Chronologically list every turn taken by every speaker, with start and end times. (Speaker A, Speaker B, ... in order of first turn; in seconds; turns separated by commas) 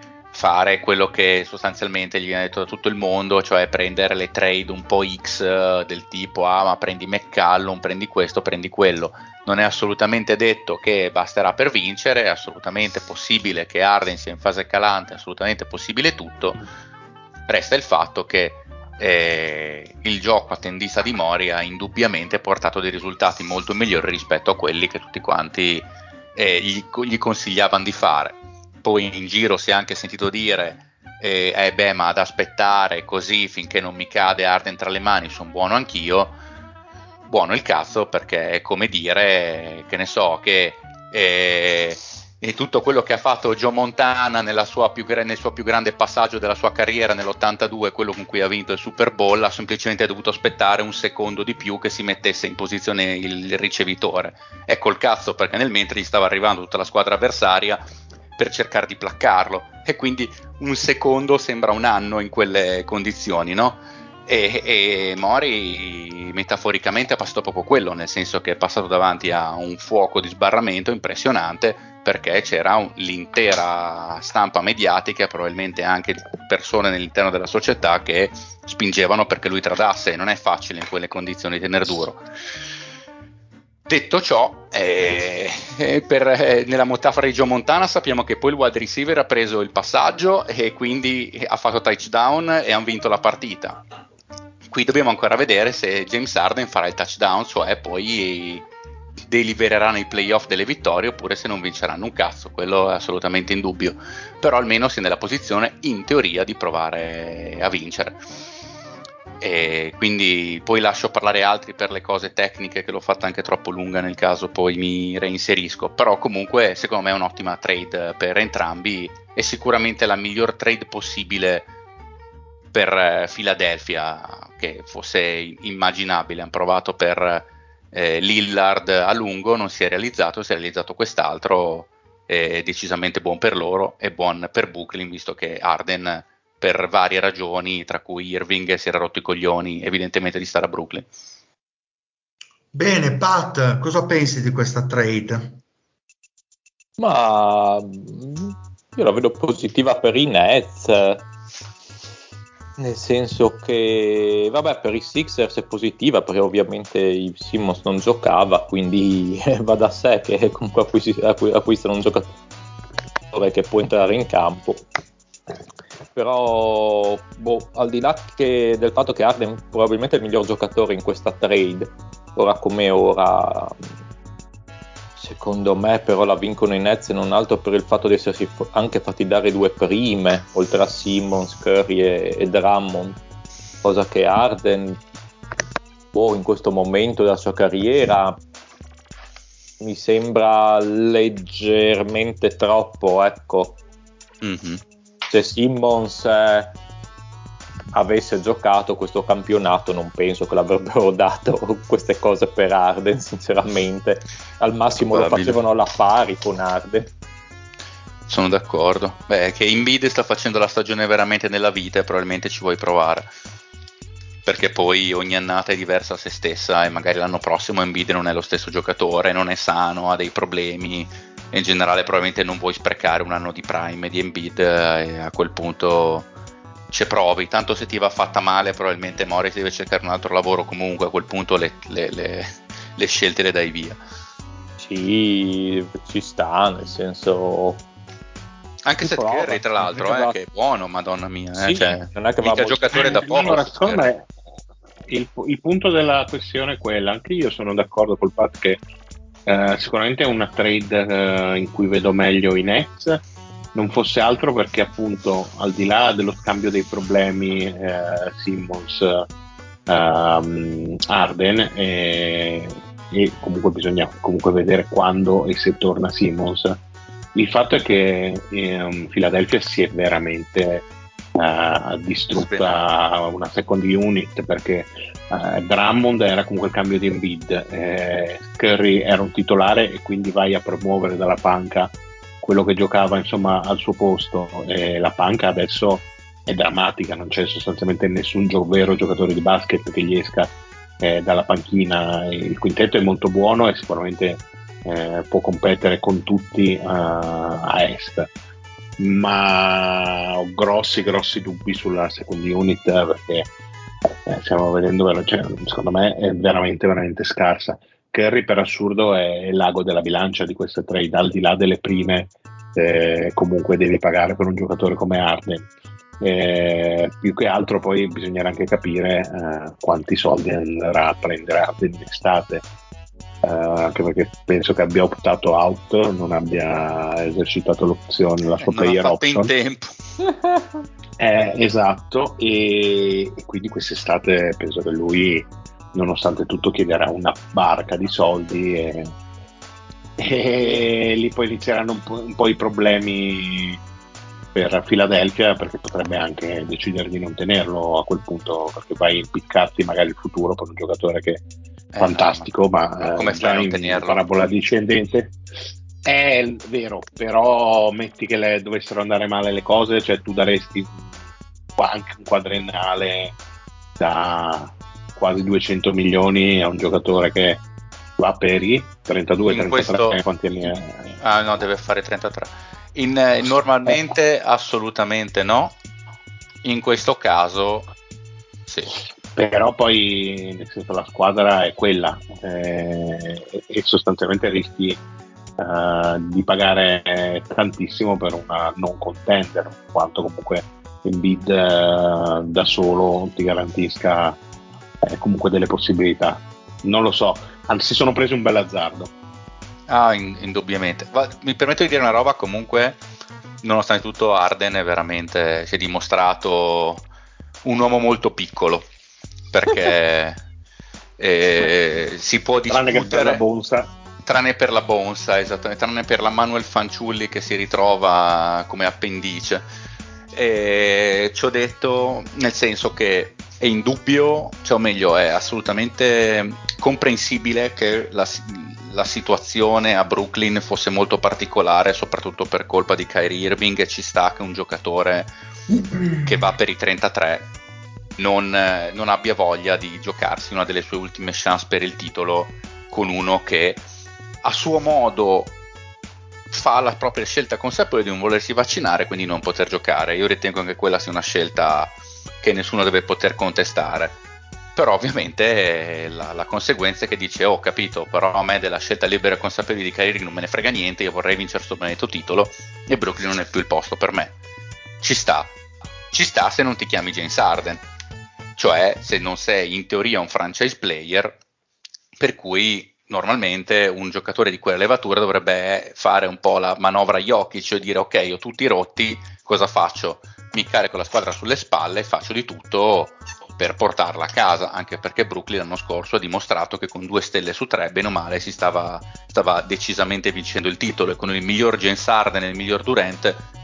Speaker A: 0.3-16.6, Speaker A: 17.5-36.4, Speaker A: 37.3-57.8, Speaker A: 58.4-82.2, Speaker A: 83.9-93.8, Speaker A: 94.7-98.6, Speaker A: 99.3-108.2, Speaker A: 109.4-121.7, Speaker A: 122.7-141.1, Speaker B: 142.7-145.6, Speaker C: 147.0-151.2, Speaker C: 152.8-162.3, Speaker C: 163.3-164.8, Speaker C: 166.1-173.8, Speaker C: 175.2-183.2, Speaker C: 183.8-185.0, Speaker C: 186.1-188.4, Speaker C: 189.8-193.8, Speaker A: 194.4-194.8, Speaker C: 195.3-196.7, Speaker C: 197.9-207.1, Speaker A: 205.0-205.6, Speaker A: 208.3-213.3, Speaker A: 214.4-226.3, Speaker A: 226.9-234.0, Speaker C: 234.8-237.8, Speaker A: 238.8-244.1, Speaker C: 239.0-240.3, Speaker C: 241.6-243.4, Speaker D: 242.9-244.3, Speaker D: 245.1-248.8, Speaker D: 249.4-253.2, Speaker D: 253.7-259.2, Speaker D: 259.9-266.8, Speaker D: 267.3-298.3, Speaker A: 272.3-272.8, Speaker D: 299.0-303.5, Speaker D: 304.1-315.7, Speaker D: 316.2-322.6, Speaker D: 323.4-329.5, Speaker A: 328.6-329.9, Speaker D: 331.2-339.1, Speaker D: 340.2-343.8, Speaker D: 344.5-351.4, Speaker A: 351.9-352.5, Speaker D: 352.0-355.4, Speaker A: 353.0-354.2, Speaker D: 356.0-361.1, Speaker D: 361.8-363.4, Speaker D: 364.0-367.6, Speaker D: 368.2-371.1, Speaker A: 369.4-370.2, Speaker A: 371.2-375.7, Speaker A: 376.6-377.9, Speaker D: 379.4-385.0, Speaker D: 385.6-394.4, Speaker D: 395.0-399.1, Speaker A: 399.9-403.0, Speaker A: 403.6-407.0, Speaker A: 407.6-408.9, Speaker A: 409.5-410.4, Speaker A: 411.2-413.4, Speaker D: 412.7-413.9, Speaker A: 414.2-419.6, Speaker A: 420.3-435.3, Speaker B: 435.7-436.4, Speaker A: 436.2-437.5, Speaker A: 438.2-443.8, Speaker A: 444.4-445.5, Speaker A: 446.5-454.1, Speaker A: 454.8-464.3, Speaker A: 465.0-465.5, Speaker A: 466.1-467.8, Speaker A: 468.6-471.4, Speaker A: 472.2-493.4